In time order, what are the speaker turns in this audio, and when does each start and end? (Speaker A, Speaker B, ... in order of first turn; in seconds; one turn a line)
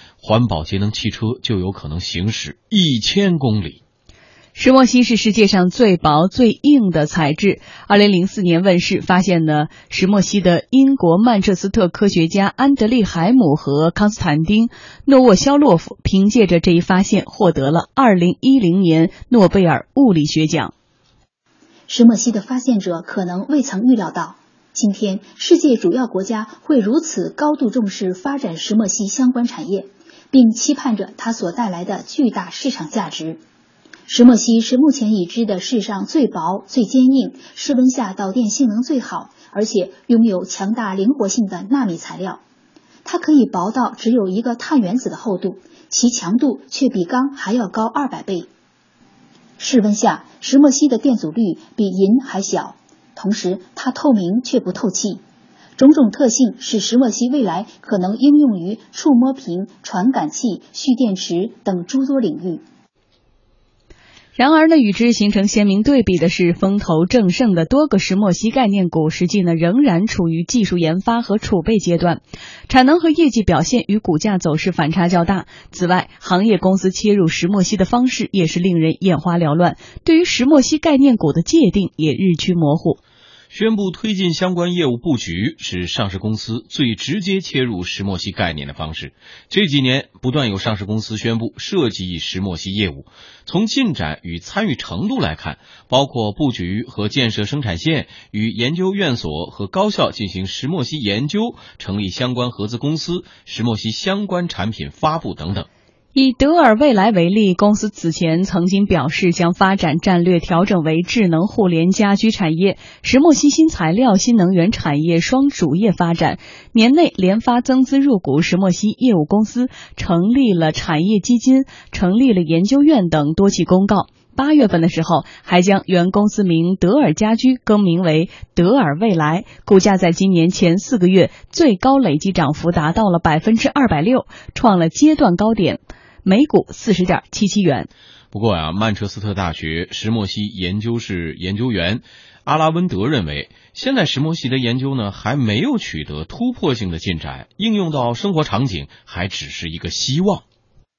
Speaker A: 0.2-3.8
Speaker B: 4.5-20.7
Speaker C: 21.9-33.4
Speaker C: 34.1-42.4
Speaker C: 43.0-48.5
Speaker C: 49.6-55.2
Speaker C: 55.8-62.6
Speaker B: 64.3-83.0
Speaker A: 83.5-105.7
Speaker B: 106.1-137.9
Speaker A: 138.3-150.4